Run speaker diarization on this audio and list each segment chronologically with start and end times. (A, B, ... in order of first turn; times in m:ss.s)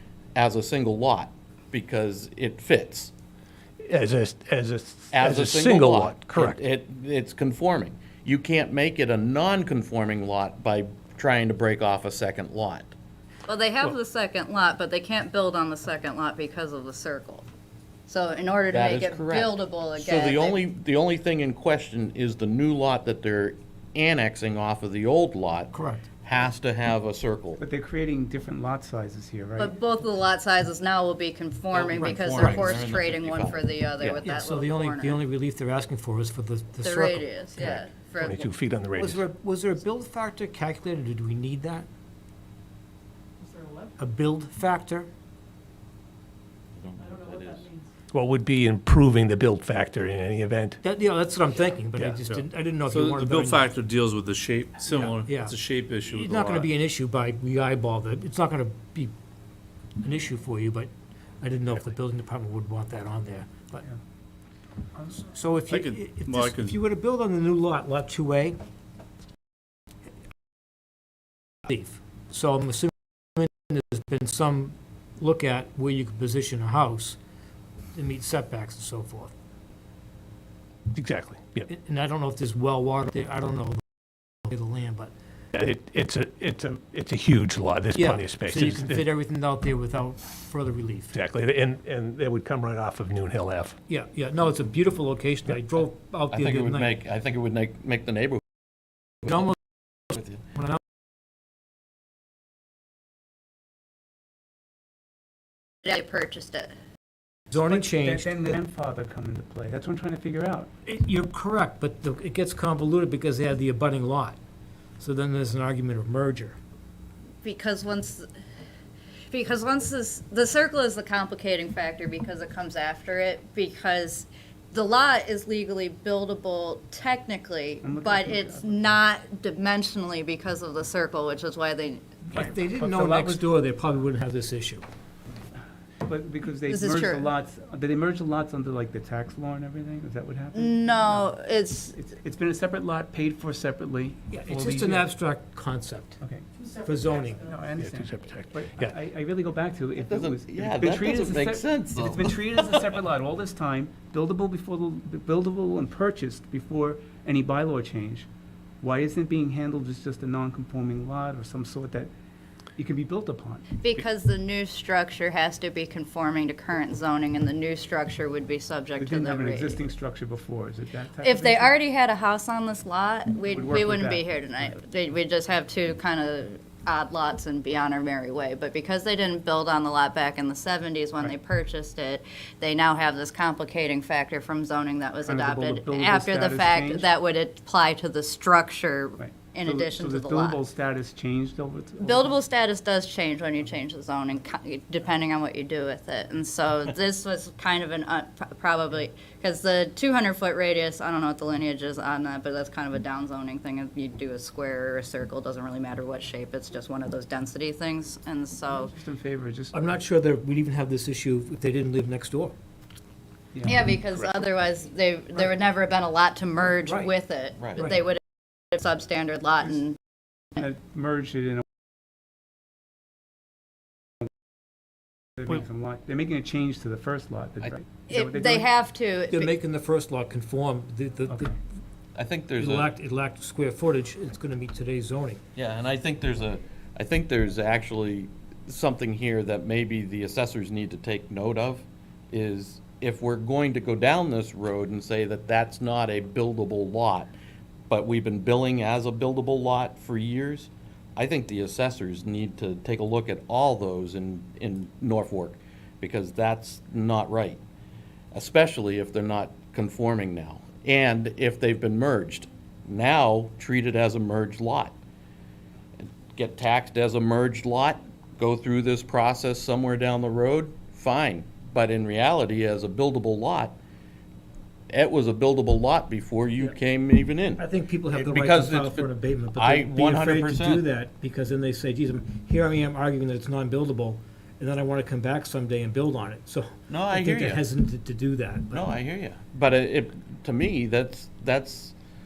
0:00.4-0:03.1 A
0:03.9-0:06.6 B
0:05.1-0:12.9 A
0:13.5-0:17.5 C
0:18.1-0:20.6 C
0:18.7-0:27.6 A
0:25.7-0:26.1 D
0:27.6-0:29.8 E
0:29.6-0:35.2 C
0:31.7-0:34.3 A
0:32.4-0:32.8 D
0:34.2-0:37.9 D
0:36.8-0:38.5 C
0:38.2-0:39.2 B
0:39.0-0:41.9 D
0:44.0-0:45.1 D
0:46.8-0:47.7 A
0:48.1-0:50.8 B
0:50.8-0:53.8 D
0:52.0-0:56.7 F
0:55.0-0:55.6 D
0:56.1-0:59.1 D
1:00.0-1:00.9 D
1:01.4-1:03.9 D
1:05.1-1:08.6 D
1:05.7-1:06.8 F
1:11.6-1:17.2 D
1:17.9-1:19.3 D
1:20.9-1:21.7 B
1:21.7-1:25.1 D
1:25.5-1:29.0 B
1:28.0-1:31.2 D
1:31.1-1:33.8 B
1:33.9-1:36.9 D
1:36.3-1:38.4 A
1:39.2-1:39.6 D
1:40.1-1:40.8 D
1:40.2-1:40.4 A
1:45.8-1:46.7 C
1:47.5-1:48.3 D
1:47.6-1:50.7 E
1:50.9-1:54.4 D
1:55.0-1:56.6 D
1:57.4-1:58.3 C
1:59.3-2:12.4 C
2:07.8-2:09.0 E
2:12.4-2:14.8 D
2:12.4-2:13.4 E
2:16.0-2:21.3 E
2:16.7-2:17.3 C
2:20.5-2:22.0 C
2:22.0-2:25.1 E
2:24.3-2:26.2 D
2:26.2-2:26.5 E
2:26.8-2:27.5 D
2:27.4-2:38.3 E
2:27.8-2:29.0 B
2:30.0-2:32.4 A
2:38.8-2:42.1 E
2:42.8-2:44.0 E
2:43.8-2:49.8 C
2:49.0-2:51.8 E
2:51.2-3:10.6 C
2:53.5-2:54.7 E
3:05.3-3:07.1 E
3:09.2-3:12.4 E
3:12.0-3:28.9 C
3:28.7-3:29.7 E
3:29.7-3:32.5 D
3:33.6-3:34.2 E
3:33.6-3:38.2 C
3:36.8-3:37.1 D
3:37.6-3:37.9 A
3:38.7-3:40.0 C
3:40.5-3:41.6 E
3:45.4-3:48.7 E
3:48.1-3:49.5 C
3:49.3-3:51.5 D
3:51.3-3:51.6 E
3:52.2-3:52.9 A
3:52.6-3:55.4 D
3:55.6-4:07.3 A
4:07.9-4:17.6 A
4:18.3-4:25.0 A
4:26.0-4:33.8 A
4:34.9-4:40.8 A
4:37.6-4:48.9 D
4:46.9-4:47.6 A
4:48.7-4:51.9 A